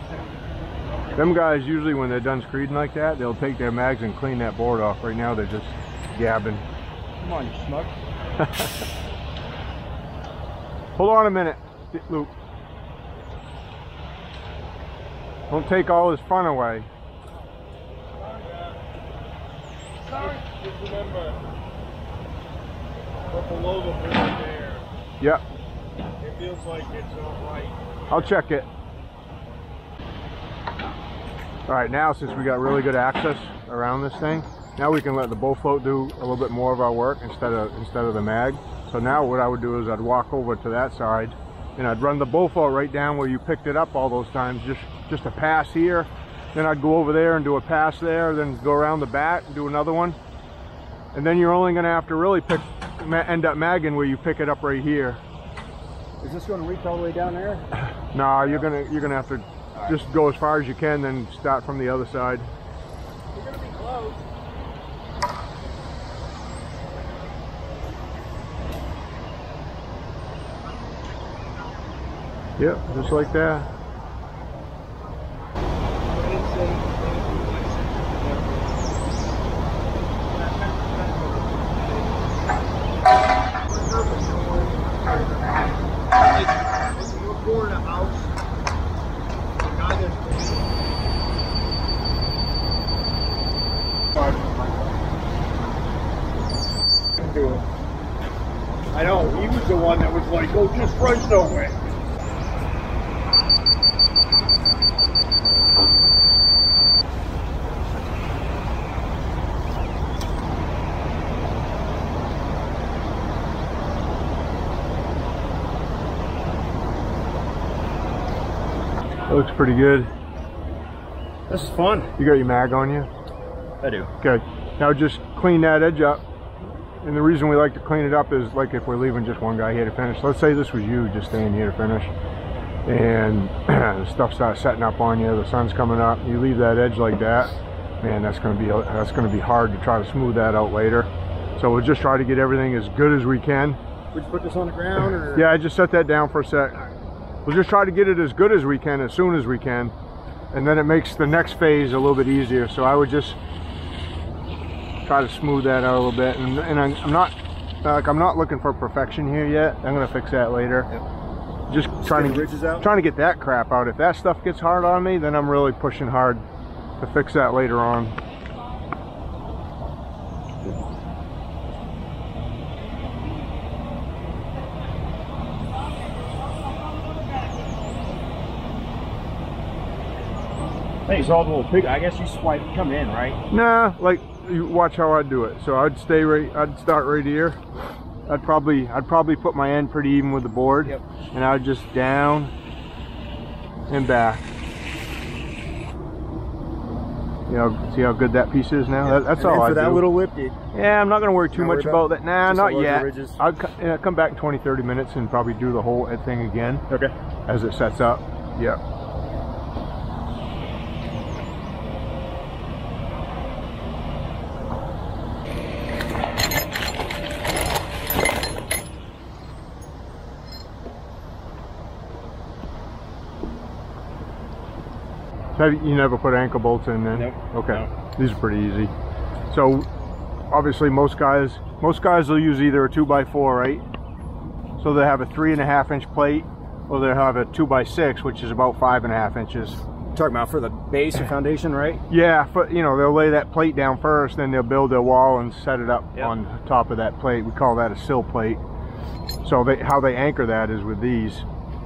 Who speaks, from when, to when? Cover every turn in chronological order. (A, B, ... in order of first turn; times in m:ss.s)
0:01.1-0:06.6 A
0:07.2-0:07.9 B
0:08.4-0:08.7 A
0:11.0-0:12.3 A
0:15.5-0:16.9 A
0:18.1-0:18.8 C
0:20.0-0:21.4 C
0:23.3-0:24.8 C
0:26.2-0:28.2 C
0:28.1-0:28.7 A
0:31.7-0:50.2 A
0:51.1-0:55.2 A
0:56.2-0:57.7 B
0:58.1-1:02.5 A
0:59.7-1:00.0 B
1:03.3-1:04.1 B
1:03.6-1:04.1 C
1:12.6-1:13.7 A
1:16.0-1:18.7 C
1:20.3-1:22.6 C
1:23.6-1:28.3 C
1:29.6-1:30.7 C
1:37.2-1:37.6 C
1:38.9-1:41.7 C
1:38.9-1:39.4 B
1:41.3-1:41.6 B
1:59.3-2:00.1 A
2:01.5-2:02.1 B
2:02.2-2:03.1 A
2:03.8-2:04.1 B
2:04.2-2:06.2 A
2:07.0-2:12.1 A
2:12.8-2:23.8 A
2:24.1-2:25.5 B
2:25.3-2:26.9 A
2:27.4-2:29.9 A
2:30.5-2:33.4 A
2:35.0-2:40.9 A
2:41.7-2:46.4 A
2:42.0-2:42.9 B
2:47.0-2:48.2 A
3:01.0-3:03.4 B
3:03.5-3:07.6 A
3:08.3-3:12.5 A
3:13.9-3:14.4 A
3:17.5-3:20.0 A
3:19.0-3:20.6 B
3:20.7-3:26.8 A
3:21.5-3:23.4 B
3:27.5-3:28.8 A
3:45.6-3:48.9 A
3:47.1-3:47.9 B
3:49.5-3:49.9 A
3:50.5-3:53.8 A
3:54.8-3:59.8 A
4:00.1-4:02.0 B
4:02.1-4:08.6 A
4:09.4-4:11.4 A